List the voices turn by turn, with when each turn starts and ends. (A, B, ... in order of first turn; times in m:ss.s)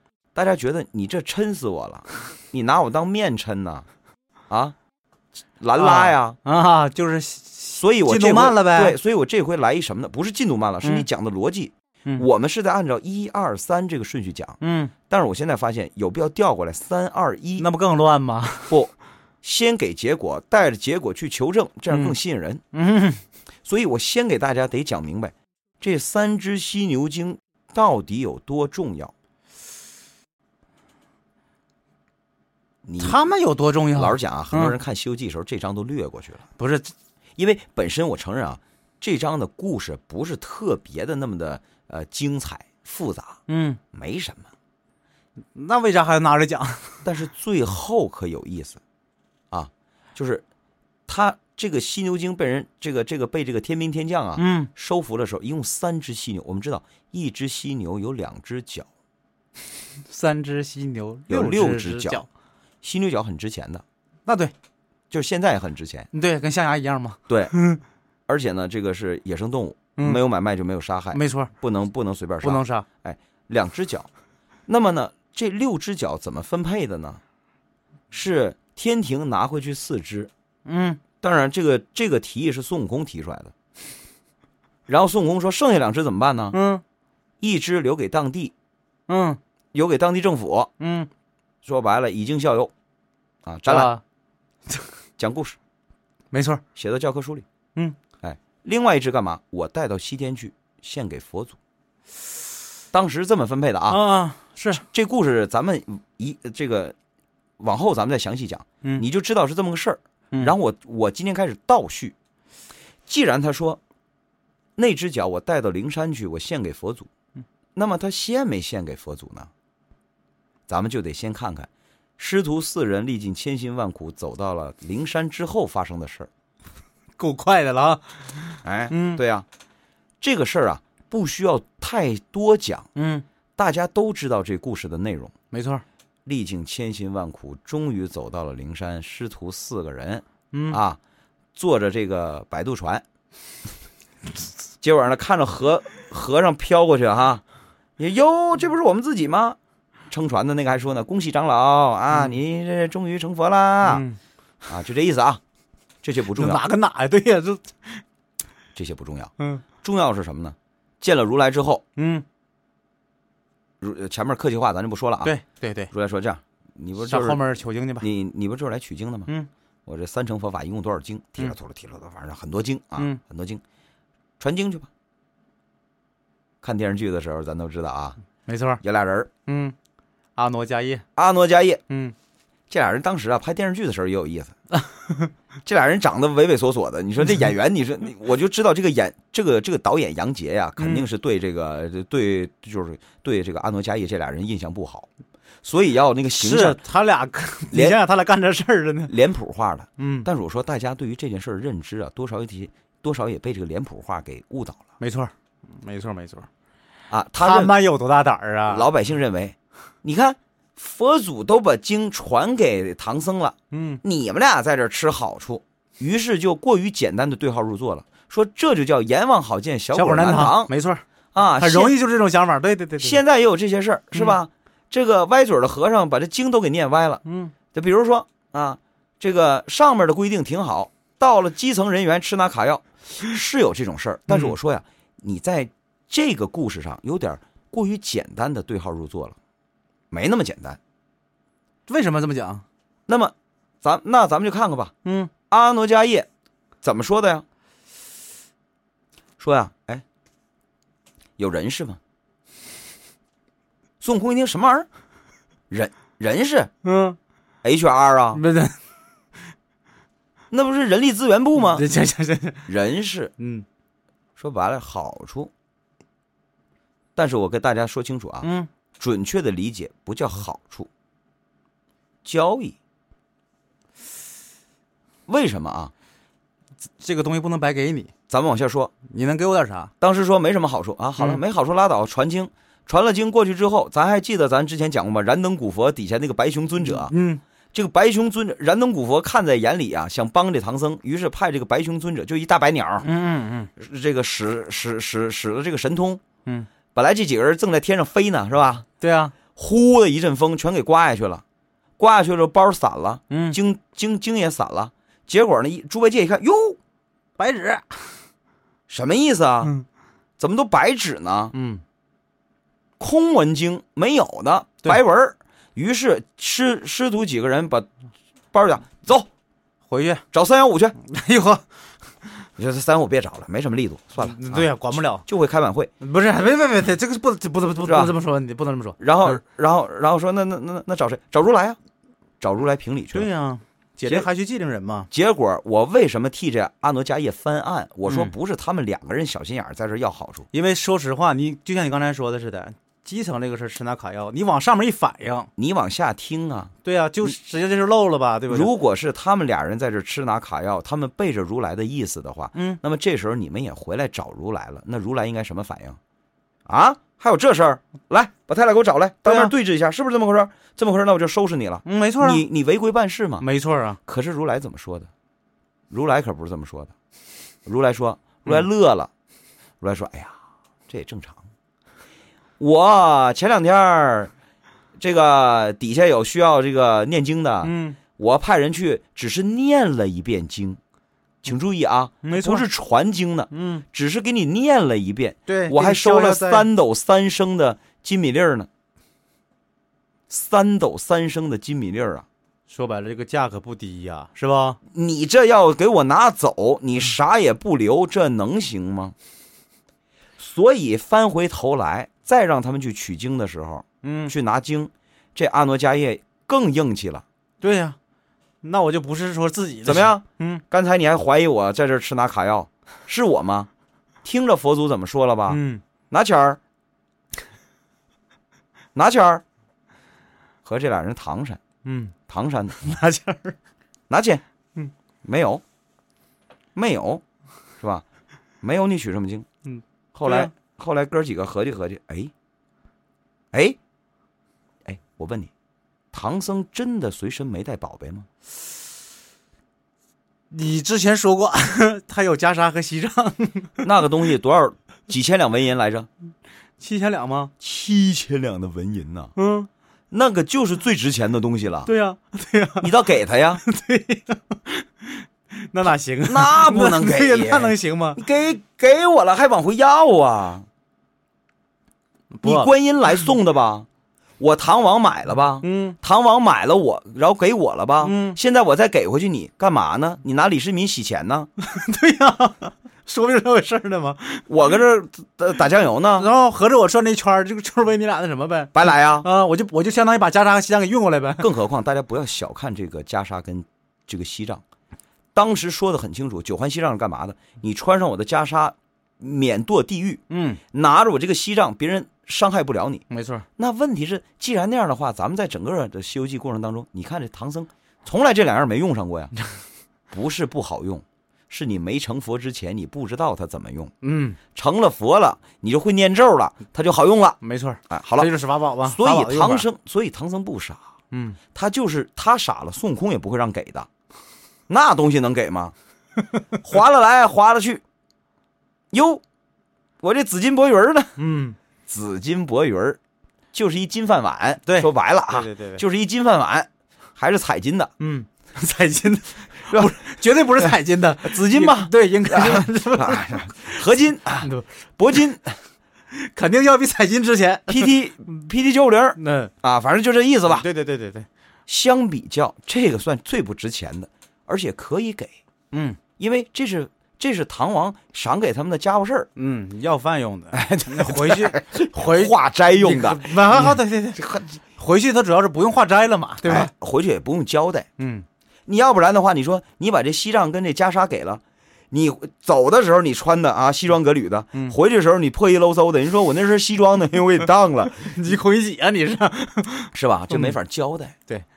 0:00.3-0:03.9 A
0:04.5-0:04.8 A
0:05.6-0:06.4 A
0:05.7-0:09.0 B
0:07.7-0:17.7 A
0:10.8-0:11.1 B
0:14.6-0:14.9 B
0:17.6-0:18.8 B
0:18.7-0:22.6 A
0:21.9-0:22.2 B
0:22.7-0:23.2 B
0:23.6-0:29.1 A
0:32.8-0:33.2 A
0:33.0-0:34.8 B
0:33.9-0:36.4 A
0:36.6-0:36.9 B
0:37.4-0:43.4 A
0:43.5-0:43.8 B
0:43.9-0:44.5 A
0:45.5-0:47.0 B
0:47.0-0:48.8 A
0:49.5-0:50.4 A
0:51.1-0:58.9 A
0:54.3-0:54.7 B
1:00.0-1:02.2 B
1:01.3-1:02.2 A
1:02.8-1:03.8 A
1:04.2-1:04.5 B
1:05.1-1:06.1 A
1:06.1-1:07.8 B
1:07.3-1:07.5 A
1:08.3-1:14.1 A
1:10.0-1:10.2 B
1:11.1-1:11.5 B
1:12.4-1:12.8 B
1:14.7-1:17.2 A
1:18.1-1:20.3 A
1:20.6-1:21.0 B
1:21.2-1:23.5 A
1:24.9-1:26.6 A
1:26.5-1:26.8 B
1:27.4-1:28.5 A
1:29.1-1:29.4 B
1:29.7-1:30.7 A
1:30.8-1:31.1 B
1:31.6-1:32.7 A
1:33.4-1:33.9 A
1:33.7-1:34.0 B
1:35.2-1:35.6 A
1:36.3-1:36.6 B
1:36.7-1:37.4 A
1:38.2-1:41.6 A
1:42.9-1:44.0 A
1:43.9-1:44.8 B
1:44.7-1:46.9 A
1:47.6-1:52.1 A
1:53.1-1:53.8 A
1:54.8-1:57.1 A
1:57.8-1:59.5 A
2:00.7-2:06.3 A
2:07.2-2:09.2 B
2:08.6-2:09.4 A
2:10.2-2:12.9 A
2:13.0-2:13.2 B
2:13.6-2:15.3 A
2:15.5-2:15.8 B
2:16.2-2:21.0 A
2:20.5-2:20.8 B
2:21.5-2:23.0 A
2:24.8-2:27.4 A
2:28.0-2:29.6 A
2:30.1-2:34.0 A
2:33.8-2:34.2 B
2:34.6-2:35.4 A
2:36.0-2:36.6 A
2:36.3-2:38.0 B
2:38.8-2:41.8 A
2:39.4-2:39.6 B
2:42.0-2:42.2 B
2:43.8-2:45.4 A
2:45.2-2:45.9 B
2:45.9-2:47.4 A
2:47.0-2:48.1 B
2:48.0-2:49.3 A
2:49.8-2:53.6 A
2:54.4-2:54.9 A
2:56.6-2:58.2 A
2:58.4-2:58.8 B
2:58.8-2:59.3 A
2:59.4-2:59.8 B
3:00.4-3:01.0 B
3:01.1-3:01.8 A
3:01.9-3:02.1 B
3:02.7-3:04.5 A
3:04.9-3:05.3 B
3:05.6-3:15.1 A
3:10.8-3:11.1 B
3:15.6-3:16.8 A
3:16.3-3:19.1 B
3:17.7-3:18.0 A
3:19.0-3:24.8 A
3:20.0-3:20.3 B
3:25.0-3:26.5 B
3:27.1-3:27.8 A
3:27.4-3:28.9 B
3:28.7-3:40.7 A
3:33.7-3:34.0 B
3:39.9-3:41.0 B
3:41.3-3:42.0 A
3:41.5-3:43.2 B
3:43.0-3:59.4 A
3:47.2-3:47.5 B
3:54.3-3:54.6 B
4:00.1-4:00.8 A
4:01.9-4:02.6 B
4:03.1-4:04.9 A
4:05.0-4:05.3 B
4:05.5-4:06.3 A
4:06.8-4:07.4 A
4:09.4-4:10.0 A
4:11.4-4:12.0 A
4:14.0-4:14.9 A
4:15.7-4:16.7 A
4:16.8-4:17.2 B
4:17.6-4:18.4 A
4:18.3-4:18.8 B
4:20.5-4:21.8 A
4:21.5-4:22.7 B
4:22.6-4:23.3 A
4:23.4-4:23.6 B
4:24.4-4:25.5 A
4:27.2-4:30.9 A
4:28.4-4:28.7 B
4:32.2-4:32.8 A
4:35.3-4:35.9 A
4:37.0-4:38.1 B
4:38.3-4:38.9 A
4:39.0-4:39.9 B
4:40.0-4:47.1 A
4:46.8-4:47.4 B
4:47.7-4:53.1 A
4:53.0-4:53.7 B
4:53.8-4:56.2 A
4:56.9-4:58.8 A
4:59.0-4:59.4 B
4:59.4-5:01.4 A
5:02.0-5:06.8 A
5:03.3-5:03.6 B
5:07.4-5:08.2 B
5:08.9-5:09.7 A
5:10.4-5:11.6 A
5:11.5-5:11.8 B
5:13.0-5:17.9 A
5:18.5-5:19.3 A
5:19.9-5:20.2 B
5:20.3-5:21.0 A
5:21.0-5:21.6 B
5:22.6-5:25.9 A
5:24.2-5:25.2 B
5:26.0-5:29.4 B
5:27.8-5:28.2 A
5:29.0-5:31.8 A
5:32.4-5:33.3 A
5:33.1-5:35.1 B
5:35.1-5:40.5 A
5:38.0-5:38.3 B
5:40.5-5:45.5 B
5:45.6-5:46.7 A
5:46.8-5:48.7 B
5:48.5-5:56.0 A
5:52.5-5:52.8 B
5:56.7-6:03.5 A
5:59.2-5:59.5 B
6:01.8-6:02.4 B
6:03.4-6:04.0 B
6:04.0-6:05.1 A
6:05.9-6:06.9 A
6:07.6-6:09.1 A
6:09.8-6:11.5 A
6:12.6-6:14.3 A
6:15.0-6:20.8 A
6:17.6-6:18.0 B
6:21.4-6:28.7 A
6:22.2-6:22.6 B
6:23.5-6:23.8 B
6:25.5-6:26.7 B
6:30.3-6:32.2 A
6:32.7-6:34.8 B
6:34.9-6:39.1 A
6:40.4-6:47.2 A
6:44.0-6:44.4 B
6:47.6-6:48.0 B
6:48.6-6:50.6 B
6:49.8-6:53.7 A
6:54.2-6:56.6 A
6:55.5-6:55.8 B
6:58.9-6:59.4 A
7:00.6-7:01.6 A
7:01.8-7:02.1 B
7:02.3-7:03.0 A
7:02.8-7:03.6 B
7:04.1-7:04.4 A
7:05.2-7:05.6 A
7:06.7-7:07.2 A
7:07.8-7:08.0 A
7:08.6-7:09.4 A
7:09.6-7:10.5 B
7:10.1-7:12.3 A
7:13.5-7:13.8 A
7:14.8-7:15.5 A
7:16.1-7:18.3 A
7:20.5-7:23.9 B
7:23.8-7:26.1 A
7:26.8-7:27.5 B
7:27.6-7:29.3 A
7:29.4-7:29.7 B
7:30.1-7:31.9 A
7:31.8-7:38.2 B
7:32.8-7:33.6 A
7:36.2-7:40.7 A
7:42.3-7:43.3 B
7:42.4-7:43.9 A
7:44.4-7:51.5 A
7:45.6-7:46.0 B
7:48.0-7:48.4 B
7:51.6-7:54.7 B
7:54.5-7:56.3 A
7:56.1-8:01.5 B
7:58.7-7:59.3 A
8:01.4-8:04.6 A
8:05.3-8:13.0 A
8:10.3-8:10.6 B
8:13.1-8:13.4 B
8:13.6-8:19.3 A
8:20.1-8:23.9 A
8:24.0-8:24.4 B
8:24.5-8:30.9 A
8:27.4-8:29.7 B
8:31.1-8:31.4 B
8:31.5-8:33.9 A
8:34.7-8:35.7 A
8:36.6-8:37.8 A
8:38.9-8:39.2 A
8:40.0-8:41.2 A
8:41.2-8:41.6 B
8:41.9-8:43.0 A
8:43.5-8:47.9 A
8:44.6-8:45.8 B
8:48.0-8:53.8 B
8:49.7-8:55.6 A
8:54.4-8:55.3 B
8:56.1-8:58.0 B
8:57.7-9:00.7 A
8:59.2-8:59.5 B
9:00.5-9:01.3 B
9:01.7-9:05.4 A
9:05.7-9:06.0 B
9:06.1-9:09.3 A
9:09.4-9:16.7 B
9:10.5-9:13.4 A
9:16.4-9:17.9 A
9:18.0-9:18.2 B
9:18.7-9:28.2 A
9:27.8-9:30.6 B
9:29.9-9:31.1 A